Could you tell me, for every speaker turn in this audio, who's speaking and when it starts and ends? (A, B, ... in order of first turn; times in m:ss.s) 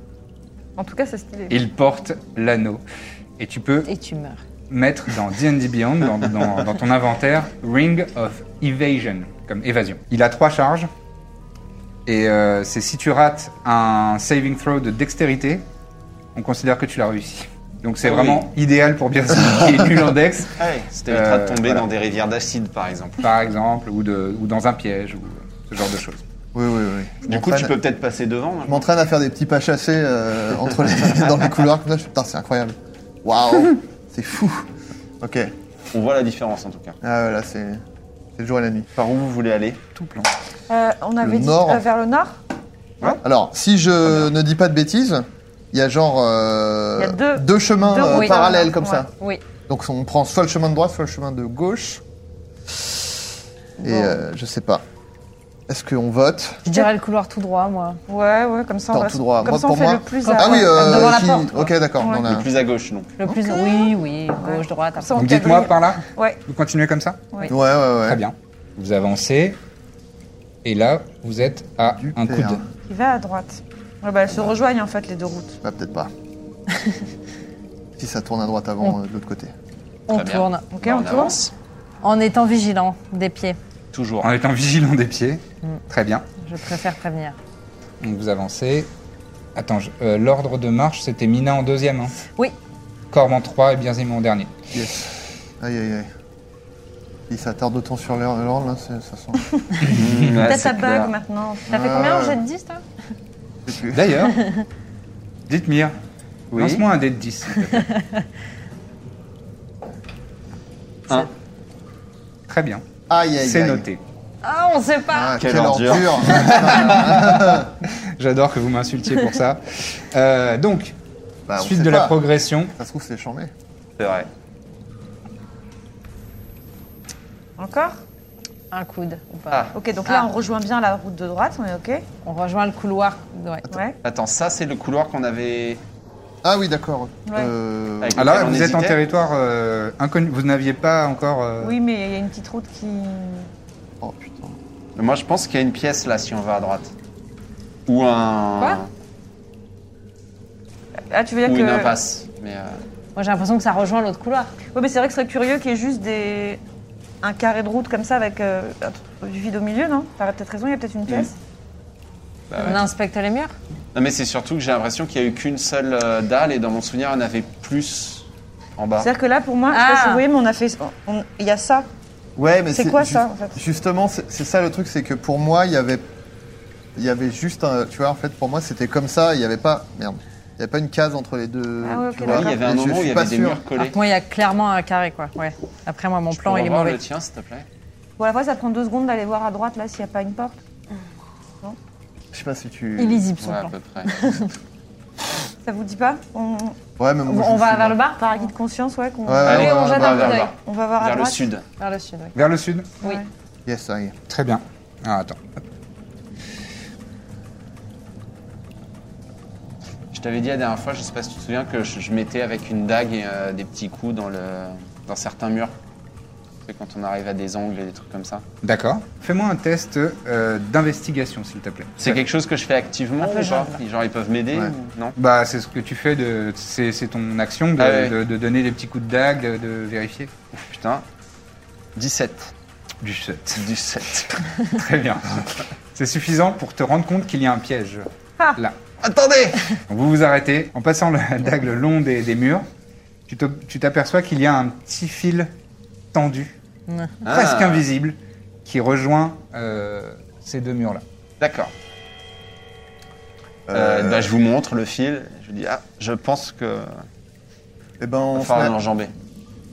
0:00.8-0:01.6 A
0:01.5-0:02.8 B
0:03.4-0:03.9 B
0:03.8-0:04.4 C
0:04.7-0:10.9 B
0:12.1-0:15.6 B
0:16.4-0:21.8 B
0:18.0-0:18.5 D
0:20.6-0:23.3 D
0:23.2-0:26.2 B
0:26.5-0:27.8 E
0:27.3-0:28.9 D
0:28.7-0:34.7 E
0:35.2-0:35.5 E
0:35.9-0:37.0 D
0:37.0-0:37.8 E
0:38.4-0:38.9 E
0:39.0-0:39.8 D
0:40.0-0:40.3 B
0:40.7-0:42.4 A
0:41.2-0:41.9 E
0:43.1-0:49.1 E
0:44.1-0:44.3 D
0:47.0-0:49.1 A
0:48.1-0:48.6 C
0:49.7-0:52.0 E
0:53.8-0:54.2 A
0:53.8-0:54.8 E
0:55.7-0:56.6 E
0:56.7-0:58.0 C
0:58.1-1:02.3 A
0:58.9-1:02.5 E
1:00.2-1:01.6 C
1:02.3-1:03.1 D
1:03.2-1:05.2 C
1:03.2-1:03.5 E
1:03.5-1:06.4 A
1:05.1-1:07.2 B
1:07.5-1:08.2 E
1:08.0-1:09.6 B
1:10.6-1:12.6 B
1:12.0-1:12.6 E
1:12.9-1:15.6 A
1:15.6-1:16.1 E
1:18.0-1:19.5 E
1:20.1-1:20.6 C
1:20.1-1:21.5 D
1:20.7-1:21.4 A
1:22.0-1:23.6 C
1:23.9-1:24.3 D
1:24.2-1:26.3 B
1:26.4-1:27.4 C
1:28.0-1:28.9 B
1:29.6-1:32.1 B
1:33.1-1:34.5 B
1:34.7-1:36.1 E
1:37.3-1:39.4 E
1:39.6-1:41.8 A
1:39.8-1:41.1 D
1:41.7-1:42.8 C
1:41.7-1:42.4 E
1:43.6-1:44.1 E
1:43.9-1:44.4 B
1:44.4-1:44.6 C
1:45.5-1:45.9 B
1:46.5-1:47.9 B
1:46.6-1:46.8 D
1:47.7-1:48.2 C
1:52.5-1:52.8 B
1:53.1-1:53.9 E
1:53.4-1:54.0 B
1:54.4-1:55.4 C
1:55.1-1:57.7 E
1:55.4-1:56.8 D
1:56.4-1:56.9 B
1:58.1-2:01.0 B
2:01.5-2:02.2 E
2:01.6-2:02.7 B
2:02.8-2:03.5 E
2:04.0-2:04.3 D
2:07.6-2:08.0 A
2:08.7-2:10.3 C
2:09.8-2:12.0 A
2:12.2-2:13.7 C
2:13.7-2:14.0 A
2:14.0-2:15.8 D
2:16.4-2:18.3 E
2:18.0-2:19.0 D
2:18.2-2:21.8 B
2:21.6-2:23.5 A
2:24.0-2:24.6 E
2:25.0-2:26.9 D
2:27.9-2:28.9 D
2:31.1-2:32.0 A
2:31.4-2:32.8 D
2:33.2-2:34.5 C
2:34.7-2:36.6 A
2:37.2-2:41.4 A
2:42.5-2:42.8 D
2:42.6-2:43.5 C
2:43.9-2:48.3 D
2:48.8-2:49.1 D
2:49.0-2:51.9 A
2:49.7-2:50.2 C
2:52.4-2:56.1 E
2:52.7-2:53.6 A
2:57.0-3:03.6 E
3:01.8-3:02.6 A
3:02.3-3:04.0 D
3:03.8-3:07.0 C
3:06.3-3:07.7 D
3:08.2-3:10.6 A
3:12.3-3:13.3 E
3:13.0-3:14.5 C
3:13.4-3:14.3 D
3:15.6-3:16.8 A
3:17.0-3:18.0 E
3:17.3-3:18.5 C
3:18.2-3:19.7 A
3:19.3-3:20.4 E
3:19.4-3:20.5 C
3:19.5-3:21.6 D
3:20.6-3:21.5 A
3:21.8-3:22.4 C
3:22.4-3:22.9 B
3:23.7-3:24.2 E
3:24.3-3:25.6 B
3:30.1-3:35.7 D
3:36.7-3:38.4 D
3:38.6-3:42.2 B
3:42.0-3:45.2 D
3:43.2-3:43.8 C
3:45.2-3:50.3 B
3:47.8-3:48.2 D
3:50.6-3:51.0 D
3:52.0-3:52.5 D
3:53.0-3:53.7 B
3:53.6-3:54.4 D
3:54.6-3:58.8 B
3:59.0-3:59.6 D
3:59.9-4:02.6 B
4:03.3-4:05.5 B
4:06.1-4:06.6 B
4:07.2-4:07.9 D
4:07.3-4:11.0 B
4:11.4-4:11.7 D
4:13.7-4:14.3 E
4:13.7-4:17.0 D
4:18.0-4:18.8 E
4:18.3-4:19.1 D